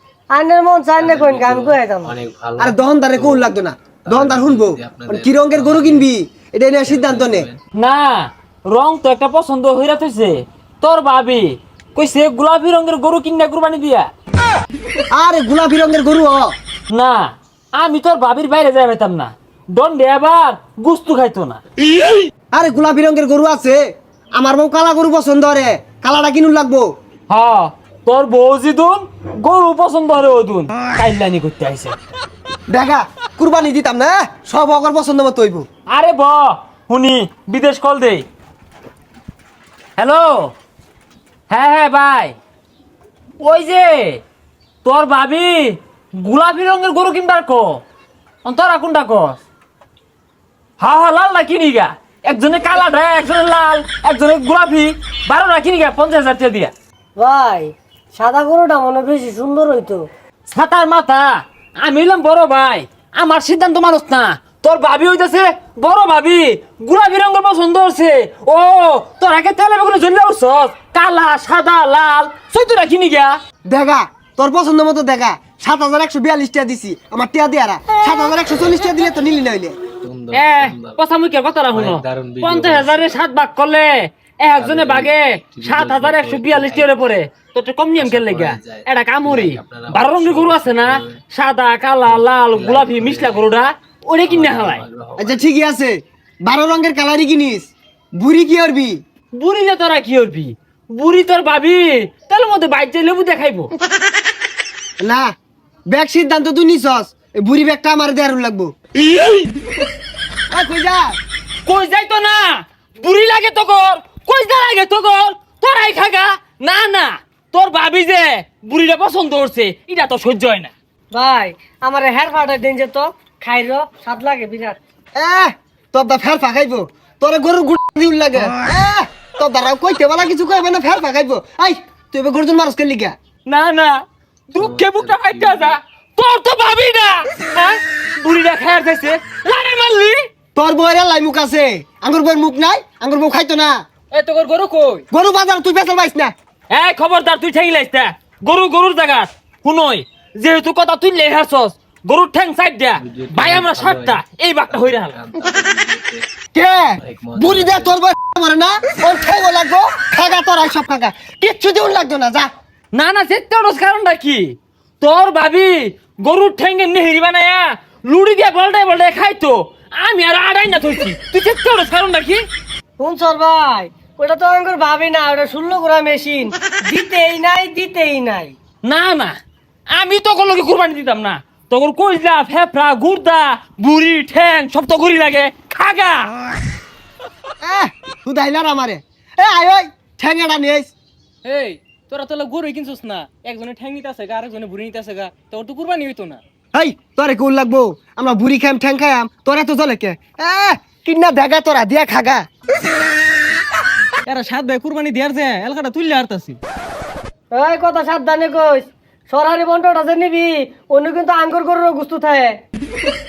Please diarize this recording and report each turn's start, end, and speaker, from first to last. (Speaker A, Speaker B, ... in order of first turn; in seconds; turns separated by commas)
Speaker A: 0.3-2.1, Speaker B: 1.0-6.1, Speaker C: 2.6-7.5, Speaker B: 6.8-7.6, Speaker D: 7.8-14.1, Speaker C: 15.1-16.6, Speaker D: 16.9-21.6, Speaker C: 22.5-23.8, Speaker C: 24.4-26.9, Speaker D: 27.3-32.0, Speaker C: 32.7-35.7, Speaker D: 35.9-38.2, Speaker D: 40.0-40.5, Speaker D: 41.5-42.4, Speaker D: 43.4-44.2, Speaker D: 44.8-47.8, Speaker D: 48.4-49.4, Speaker D: 50.8-56.7, Speaker A: 57.2-60.0, Speaker D: 60.5-73.4, Speaker C: 73.7-79.8, Speaker B: 80.0-81.0, Speaker D: 80.3-94.8, Speaker B: 81.7-83.2, Speaker B: 84.6-87.0, Speaker B: 88.0-91.2, Speaker B: 92.0-93.5, Speaker B: 94.3-95.5, Speaker C: 95.2-99.0, Speaker D: 99.3-103.7, Speaker C: 105.0-105.3, Speaker C: 105.9-108.7, Speaker C: 110.5-111.1, Speaker D: 111.7-120.7, Speaker A: 121.1-124.8, Speaker C: 125.2-133.1, Speaker D: 133.5-140.2, Speaker B: 134.6-135.8, Speaker C: 140.6-143.8, Speaker E: 144.1-145.1, Speaker C: 145.1-146.3, Speaker D: 146.7-155.2, Speaker B: 153.0-156.3, Speaker C: 156.5-162.5, Speaker B: 157.0-158.0, Speaker D: 162.9-172.4, Speaker A: 173.0-178.5, Speaker D: 178.8-179.4, Speaker D: 179.9-186.3, Speaker C: 187.6-190.9, Speaker E: 191.4-196.4, Speaker C: 196.7-202.4, Speaker E: 204.3-206.6, Speaker A: 207.5-212.5